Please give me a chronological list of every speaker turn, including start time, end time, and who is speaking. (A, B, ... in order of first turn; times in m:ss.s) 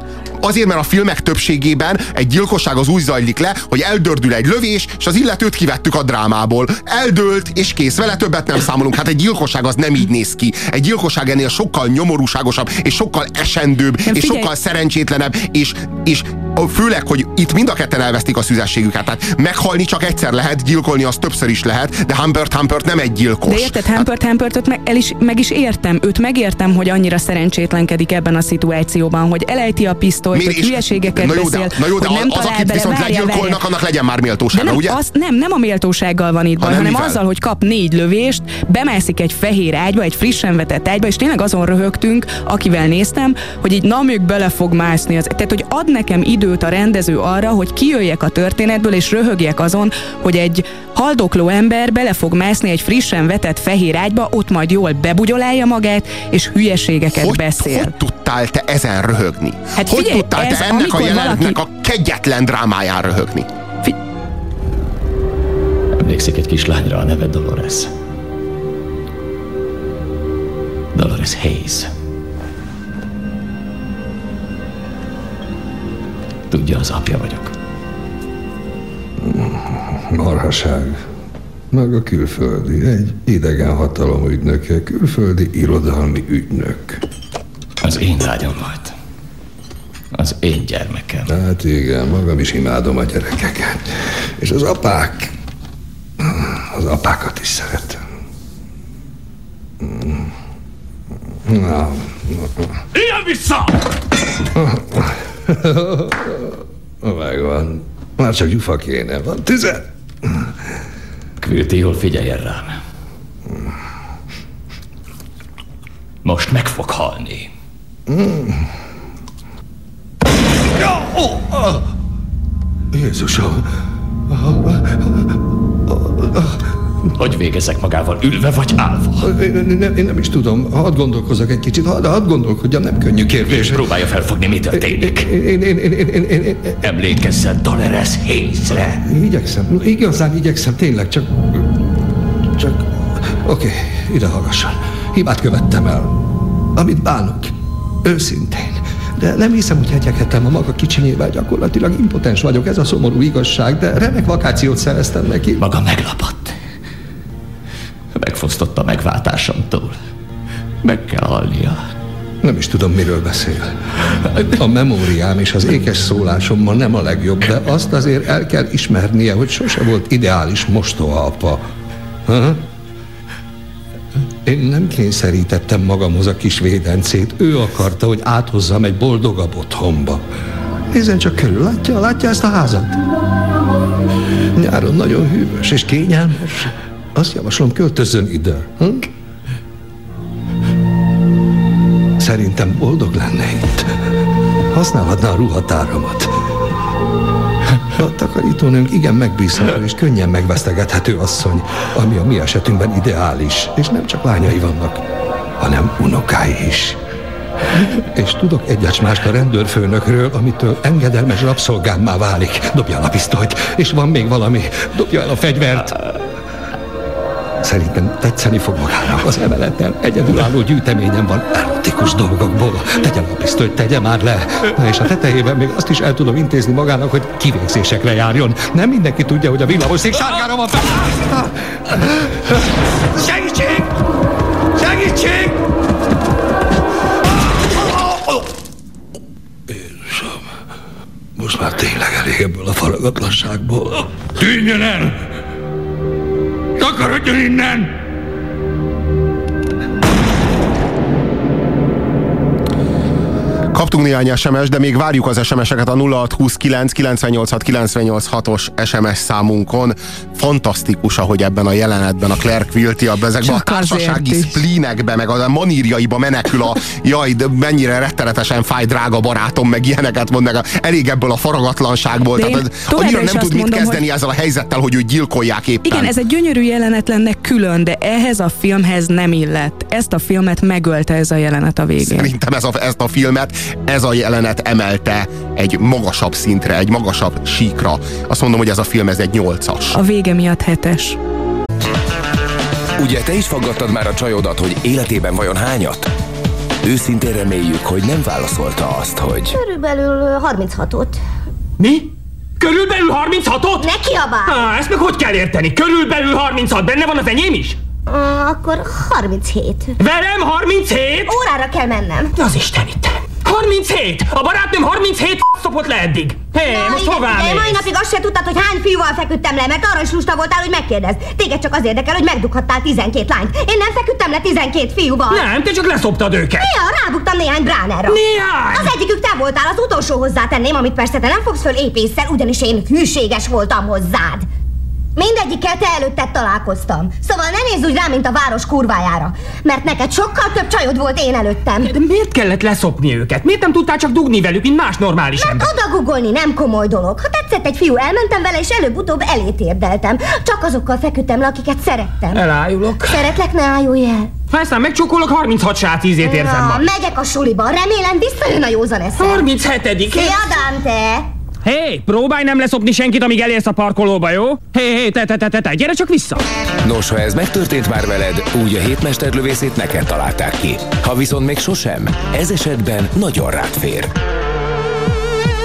0:00.4-0:24.1 A
0:14.1-0:14.5 B
0:23.4-0:33.6 B
0:30.3-0:35.0 A
0:34.5-0:57.9 B
0:36.6-0:37.2 A
0:57.1-1:03.5 A
0:59.8-1:01.6 B
1:05.9-1:07.9 C
1:10.9-1:11.9 C
1:16.5-1:17.5 C
1:19.2-1:21.0 D
1:21.7-1:27.0 D
1:27.8-1:28.9 C
1:30.1-1:31.3 C
1:31.3-1:35.3 D
1:36.2-1:38.0 D
1:39.8-1:40.3 D
1:41.4-1:42.7 D
1:42.9-1:43.7 C
1:44.5-1:50.5 D
1:51.4-1:52.8 C
1:56.2-1:57.5 C
1:58.1-1:58.6 D
2:00.8-2:01.8 D
2:02.9-2:03.6 D
2:04.3-2:05.1 D
2:05.9-2:06.6 D
2:07.1-2:09.3 C
2:09.2-2:13.9 D
2:13.4-2:15.3 C
2:14.7-2:16.8 D
2:16.8-2:19.0 C
2:19.0-2:21.7 D
2:22.6-2:26.2 D
2:26.7-2:35.6 D
2:35.6-2:36.6 C
2:38.1-2:40.0 C
2:40.8-2:41.8 C
2:42.4-2:43.7 D
2:44.5-2:51.6 D
2:52.3-2:52.6 D
2:54.4-3:00.2 D
3:00.9-3:03.0 D
3:04.6-3:09.1 D
3:12.2-3:13.9 D
3:14.7-3:16.3 D
3:17.9-3:25.0 D
3:25.6-3:27.0 D
3:27.8-3:36.0 D
3:37.6-3:52.6 D
3:53.1-3:53.9 D
3:54.8-3:55.6 D
3:57.6-3:58.4 D
3:59.7-4:00.4 D
4:01.4-4:05.2 D
4:06.8-4:07.9 D
4:13.7-4:36.1 A
4:23.4-4:24.6 B
4:32.3-4:34.0 B
4:35.8-4:42.3 B
4:42.0-4:50.0 A
4:49.9-4:51.2 B
4:53.0-4:56.1 E
4:56.8-4:59.5 E
4:59.5-5:01.2 F
5:01.8-5:03.9 G
5:03.8-5:04.7 F
5:04.5-5:07.8 G
5:08.1-5:09.9 F
5:10.0-5:11.4 G
5:11.3-5:12.3 F
5:12.3-5:17.9 G
5:16.6-5:25.5 F
5:25.3-5:26.7 G
5:26.6-5:28.2 F
5:28.0-5:29.0 G
5:28.7-5:34.5 F
5:35.2-5:41.9 F
5:41.8-5:45.7 G
5:45.4-5:52.4 F
5:52.3-5:53.4 G
5:53.0-5:54.3 F
5:54.5-5:56.9 G
5:56.2-5:59.5 F
5:59.2-6:00.6 G
6:00.0-6:01.3 F
6:01.6-6:06.4 G
6:06.8-6:14.1 E